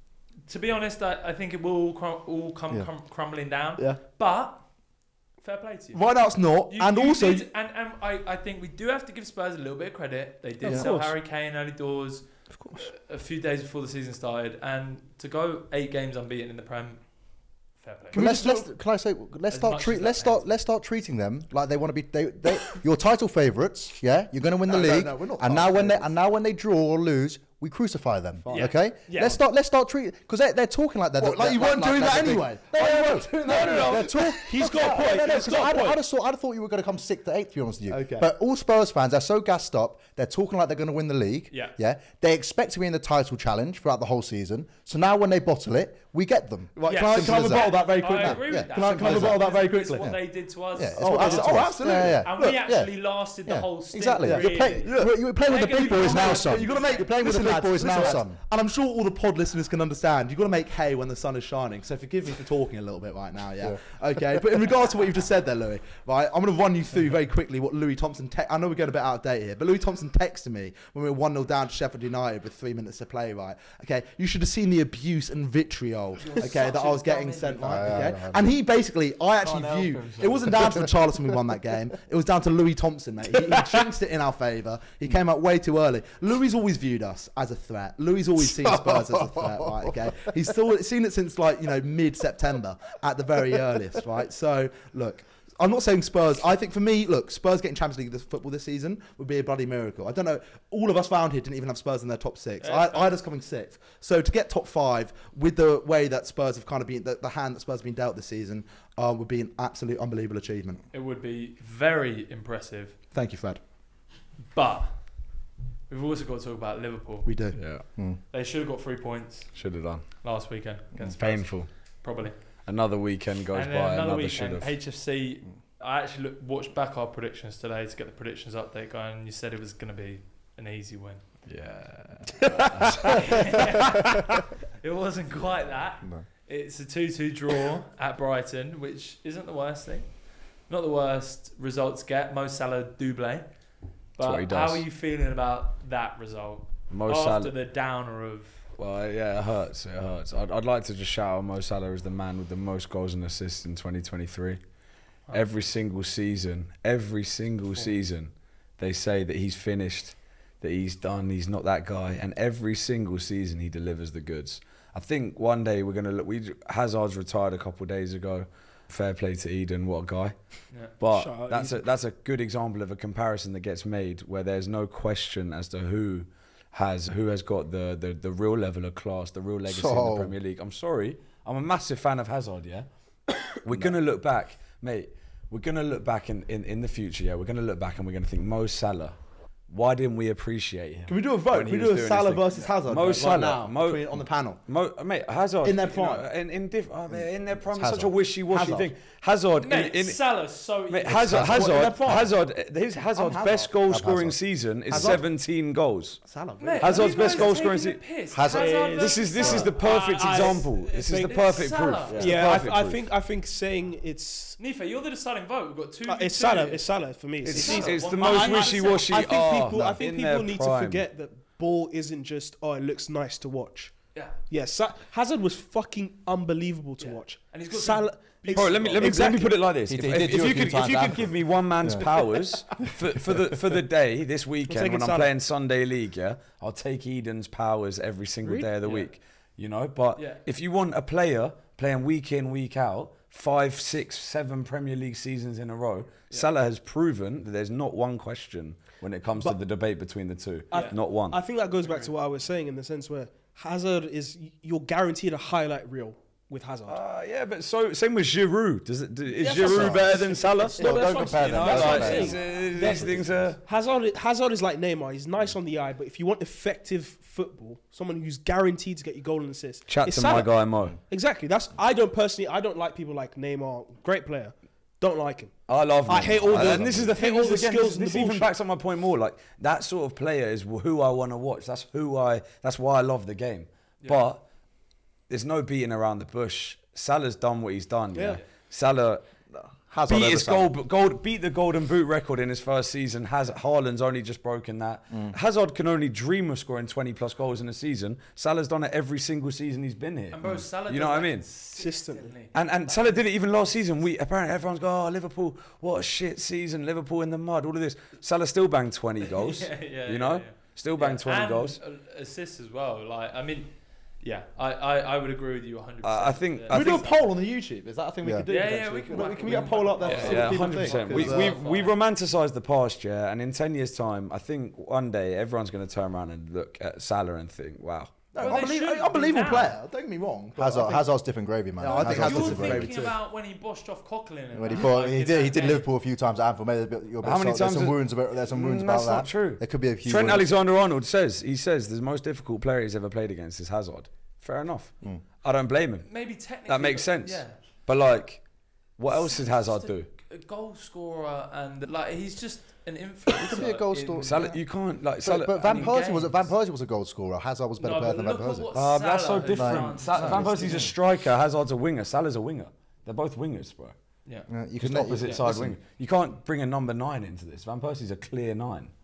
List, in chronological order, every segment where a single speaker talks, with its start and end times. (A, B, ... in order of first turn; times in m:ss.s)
0:00.5-0:04.6 A
0:05.4-0:06.1 A
0:05.9-0:07.5 B
0:06.7-0:17.1 A
0:10.6-0:10.9 C
0:17.8-0:18.2 A
0:18.1-0:18.7 B
0:18.1-0:49.5 C
0:19.5-0:20.5 A
0:24.7-0:26.1 B
0:28.4-0:28.7 B
0:28.5-0:29.4 A
0:31.2-0:35.9 B
0:33.5-0:33.9 D
0:34.4-0:35.9 E
0:37.9-0:38.3 B
0:41.5-0:41.8 A
0:46.8-0:50.1 B
0:46.8-0:57.1 A
0:50.0-0:52.9 C
0:51.0-0:52.6 B
0:53.4-0:58.4 C
0:54.2-0:55.2 B
0:55.7-1:50.8 B
1:16.2-1:18.1 A
1:17.6-1:18.5 C
1:19.4-1:20.6 D
1:28.6-1:29.9 C
1:42.6-1:43.1 A
1:50.9-1:53.0 A
1:53.1-1:53.6 B
1:54.5-1:55.1 A
1:55.9-1:57.3 A
1:57.2-1:57.6 B
1:57.5-1:57.8 D
1:58.3-1:59.7 A
1:59.5-2:00.0 D
2:00.2-2:02.4 A
2:01.2-2:01.7 D
2:02.6-2:04.7 D
2:03.5-2:11.2 A
2:11.5-2:13.6 D
2:12.9-2:20.1 A
2:20.7-2:23.4 A
2:24.2-2:28.6 A
2:24.2-2:24.8 D
2:26.9-2:27.5 D
2:28.8-2:34.6 D
2:35.3-2:50.3 D
2:51.0-3:02.9 D
2:51.1-2:51.8 E
2:59.6-3:00.3 C
3:03.4-3:09.2 D
3:09.7-3:14.2 D
3:11.1-3:14.6 B
3:14.7-3:20.2 D
3:15.6-3:16.2 B
3:17.7-3:18.1 C
3:18.5-3:18.9 B
3:19.6-3:21.5 A
3:20.9-3:26.2 D
3:21.3-3:22.2 C
3:21.3-3:22.3 B
3:23.1-3:23.7 B
3:23.9-3:25.2 C
3:24.9-3:25.2 B
3:26.2-3:27.5 B
3:26.6-3:32.5 A
3:26.8-3:28.0 D
3:28.3-3:29.7 C
3:28.9-3:33.0 D
3:29.4-3:34.6 E
3:34.6-3:36.9 A
3:36.1-3:43.9 E
3:37.4-3:39.2 A
3:37.4-3:41.0 D
3:44.5-3:49.6 E
3:47.0-3:49.2 A
3:48.5-4:11.4 D
3:49.0-3:49.3 C
3:49.8-3:52.1 C
3:54.7-3:55.3 E
3:58.8-3:59.1 A
4:00.2-4:00.4 A
4:10.7-4:17.0 E
4:11.8-4:12.1 A
4:16.9-4:23.6 D
4:19.4-4:35.5 E
4:19.6-4:20.1 C
4:20.8-4:23.4 C
4:21.7-4:22.1 A
4:29.9-4:31.0 D
4:35.7-4:44.4 D
4:36.0-4:38.5 E
4:36.1-4:37.1 C
4:45.3-4:49.2 D
4:48.1-4:48.4 E
4:49.5-4:50.7 C
4:50.0-5:01.5 D
5:00.3-5:03.2 A
5:01.7-5:02.3 E
5:02.5-5:11.8 D
5:09.3-5:17.2 A
5:16.0-5:17.1 D
5:16.7-5:21.6 B
5:18.2-5:18.5 C
5:18.5-5:21.9 A
5:20.0-5:28.3 D
5:28.3-5:31.1 B
5:28.4-5:29.7 A
5:30.6-5:32.9 C
5:31.8-5:33.2 B
5:31.9-5:35.9 A
5:34.5-5:40.5 C
5:37.2-5:48.4 D
5:46.0-5:47.6 A
5:49.0-5:50.1 D
5:49.1-5:54.4 A
5:53.4-5:54.6 C
5:54.2-5:55.9 D
5:55.2-5:58.7 C
5:55.6-5:56.5 A
5:57.8-6:00.9 A
5:58.7-6:04.0 D
5:59.5-6:00.9 C
6:04.5-6:05.8 C
6:04.8-6:08.9 D